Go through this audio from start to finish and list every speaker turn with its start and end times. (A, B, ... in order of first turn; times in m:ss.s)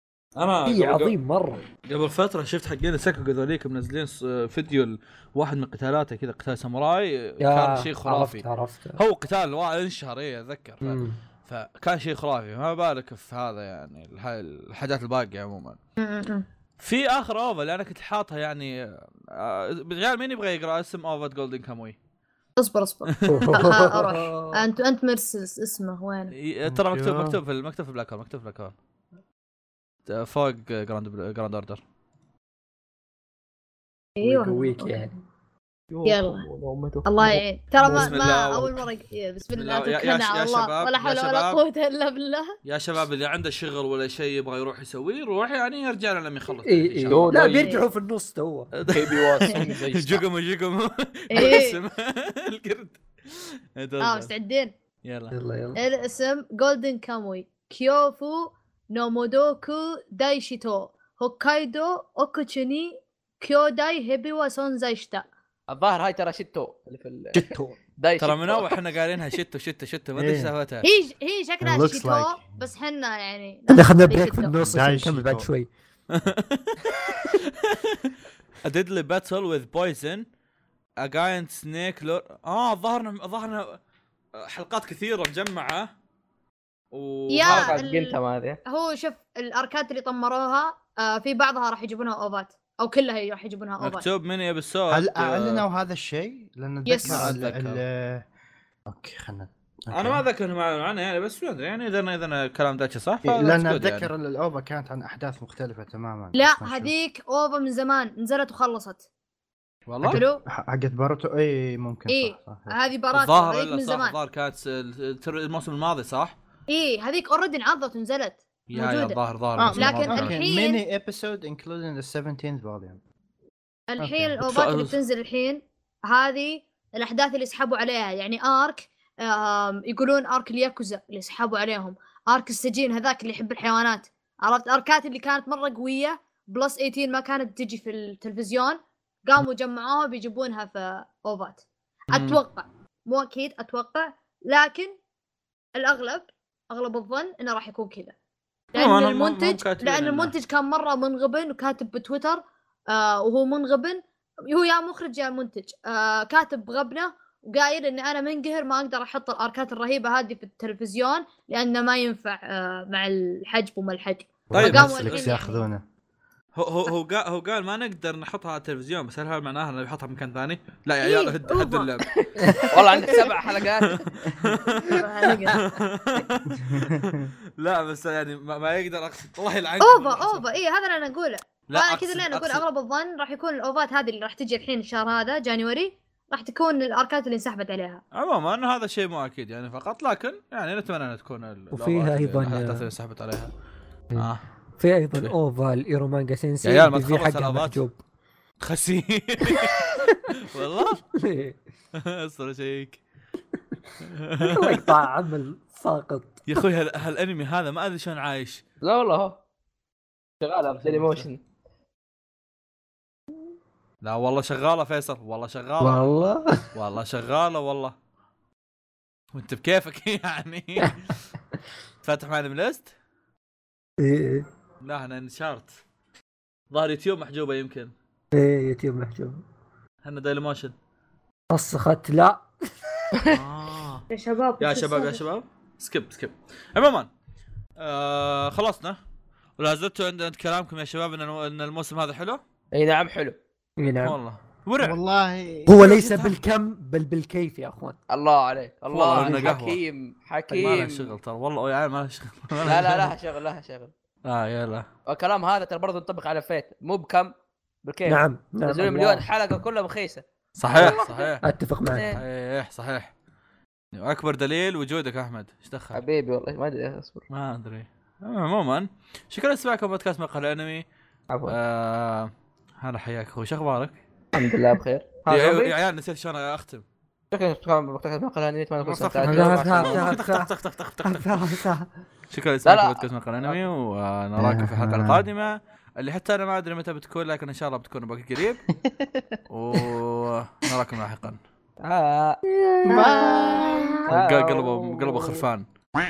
0:00.4-0:01.2 A
0:00.7-0:01.7 B
0:01.8-0:08.4 A
0:07.4-0:09.0 B
0:09.0-0:15.8 A
0:10.8-0:11.2 B
0:16.0-0:16.5 C
0:16.8-0:22.0 A
0:22.6-0:26.3 C
0:23.1-0:23.7 A
0:23.3-0:24.7 B
0:26.3-0:28.7 A
0:26.7-0:27.4 D
0:30.1-0:31.8 A
0:34.2-0:35.0 C
0:34.2-0:35.2 B
0:35.9-0:37.1 E
0:36.0-0:36.4 C
0:37.0-0:42.6 C
0:37.2-0:38.6 B
0:37.8-0:38.8 A
0:39.6-0:41.6 A
0:42.6-0:47.3 A
0:46.6-0:48.7 B
0:47.1-0:47.7 E
0:47.3-0:47.8 C
0:48.7-0:54.3 A
0:48.9-0:50.3 E
0:49.5-0:49.8 C
0:51.3-0:51.8 C
0:54.0-0:54.7 C
0:55.0-0:55.4 A
0:55.3-0:55.8 B
0:55.8-1:05.2 C
1:05.7-1:08.8 E
1:07.3-1:07.8 B
1:08.2-1:10.9 A
1:10.2-1:10.5 D
1:10.8-1:14.6 C
1:11.6-1:12.6 D
1:13.7-1:15.7 B
1:14.6-1:15.5 D
1:16.1-1:20.3 A
1:21.0-1:23.8 A
1:24.4-1:25.9 A
1:26.9-1:27.8 A
1:27.3-1:34.0 C
1:27.4-1:28.6 E
1:33.8-1:35.6 A
1:34.9-1:38.2 D
1:36.9-1:37.3 C
1:37.0-1:37.8 A
1:38.9-1:40.2 D
1:39.9-1:44.1 A
1:43.2-1:46.9 D
1:46.4-1:49.0 C
1:49.9-1:50.2 A
1:50.0-1:52.8 D
1:50.1-1:50.4 C
1:52.1-1:54.2 C
1:53.1-1:56.4 A
1:56.7-1:59.2 C
1:58.7-2:00.4 A
1:59.6-2:03.0 D
1:59.8-2:00.8 C
2:03.9-2:24.9 C
2:04.0-2:04.4 D
2:04.4-2:05.0 A
2:22.1-2:22.4 A
2:25.8-2:28.2 C
2:28.7-2:45.6 C
2:28.8-2:30.3 A
2:44.5-2:45.8 D
2:44.5-2:45.4 A
2:46.6-2:52.6 A
2:51.0-2:51.9 C
2:52.2-2:54.1 E
2:52.4-2:52.7 B
2:52.5-2:53.2 C
2:53.5-3:00.5 A
2:54.3-2:54.6 D
2:54.8-2:55.6 C
2:56.6-2:57.3 D
2:59.8-3:08.0 C
3:01.7-3:02.6 A
3:08.1-3:13.5 A
3:11.7-3:12.9 B
3:14.1-3:18.0 B
3:14.2-3:14.4 A
3:16.6-3:17.8 A
3:18.6-3:21.0 A
3:19.5-3:20.4 B
3:21.1-3:21.6 B
3:22.0-3:23.0 A
3:24.1-3:24.9 A
3:24.4-3:26.5 B
3:26.5-3:28.6 A
3:28.8-3:29.4 E
3:30.4-3:31.4 E
3:30.8-3:31.3 A
3:34.0-3:36.0 A
3:35.8-3:36.7 B
3:36.7-3:38.0 A
3:39.3-3:41.1 A
3:42.0-3:42.9 A
3:44.0-3:44.5 B
3:44.8-3:45.8 A
3:46.7-3:47.9 A
3:48.3-3:49.4 B
3:50.0-3:50.7 A
3:51.5-3:52.9 B
3:53.1-3:53.4 E
3:53.3-3:54.0 A
3:54.1-3:55.2 C
3:54.6-3:57.1 A
3:57.8-3:59.0 A
3:59.6-4:02.4 A
4:02.8-4:03.4 E
4:03.8-4:04.2 B
4:04.0-4:05.0 A
4:04.8-4:05.8 D
4:05.7-4:08.0 B
4:05.8-4:06.4 A
4:08.1-4:11.2 E
4:08.9-4:09.8 A
4:09.1-4:09.6 B
4:10.5-4:10.8 B
4:10.5-4:13.2 A
4:12.6-4:13.9 E
4:14.2-4:14.9 A
4:15.1-4:17.3 E
4:17.8-4:21.4 E
4:18.1-4:19.3 B
4:20.6-4:21.4 A
4:20.8-4:22.1 B
4:21.9-4:22.2 E
4:22.0-4:23.1 A
4:23.9-4:26.0 A
4:25.9-4:27.2 E
4:27.3-4:30.8 A
4:31.3-4:31.6 E
4:31.5-4:34.0 A
4:34.3-4:35.7 E
4:35.3-4:36.8 A
4:37.3-4:40.2 E
4:38.8-4:41.6 A
4:39.2-4:40.5 B
4:41.0-4:41.9 B
4:42.3-4:48.6 A
4:42.6-4:43.6 E
4:44.4-4:45.3 D
4:48.9-4:49.2 D
4:49.5-4:51.4 A
4:51.8-4:55.5 E
4:52.9-4:54.1 D
4:52.9-4:53.4 C
4:54.1-4:55.6 A